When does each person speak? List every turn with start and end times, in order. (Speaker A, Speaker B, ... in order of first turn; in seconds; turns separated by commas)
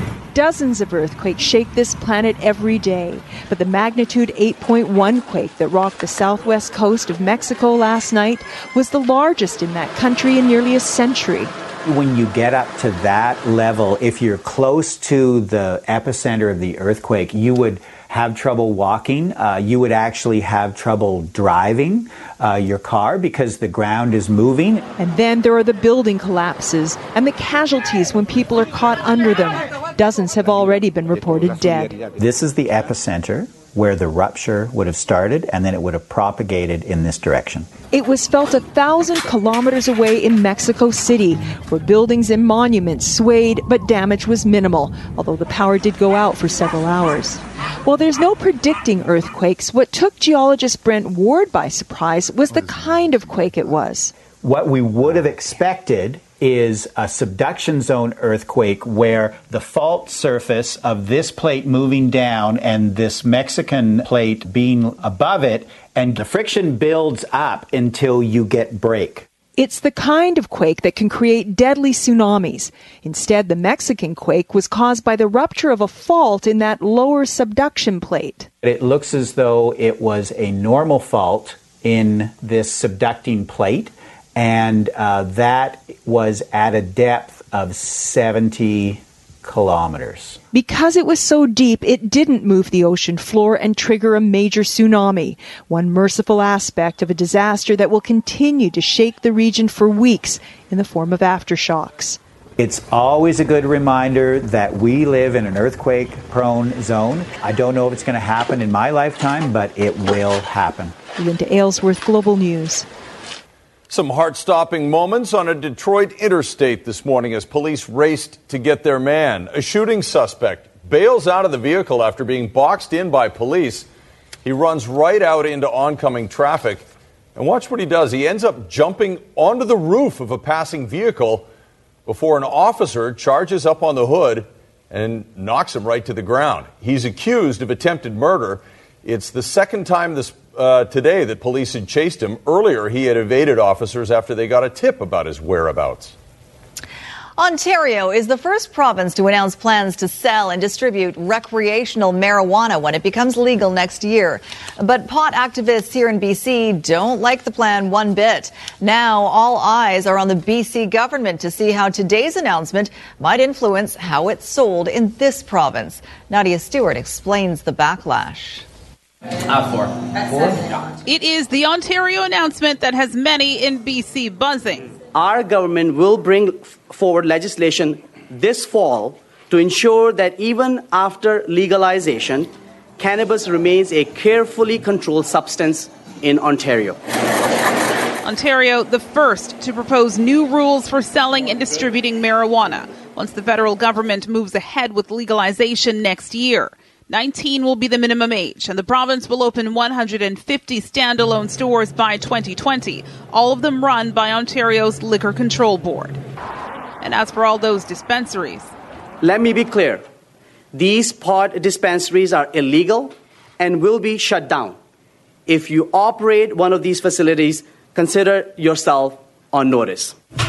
Speaker A: 0.3-11.5, Speaker B: 11.8-24.9, Speaker A: 25.0-31.9, Speaker B: 32.2-37.7, Speaker A: 37.9-54.1, Speaker B: 54.4-69.3, Speaker A: 69.6-78.5, Speaker B: 78.6-90.4, Speaker A: 90.5-102.2, Speaker B: 102.6-111.0, Speaker A: 111.2-112.8, Speaker C: 113.9-123.9, Speaker C: 124.4-126.8, Speaker C: 127.4-131.5, Speaker C: 132.1-146.1, Speaker D: 147.4-168.7, Speaker E: 171.1-174.9, Speaker F: 175.1-187.0, Speaker E: 188.2-206.2, Speaker E: 207.0-208.7, Speaker F: 209.2-210.1, Speaker F: 210.7-214.8, Speaker F: 215.5-220.2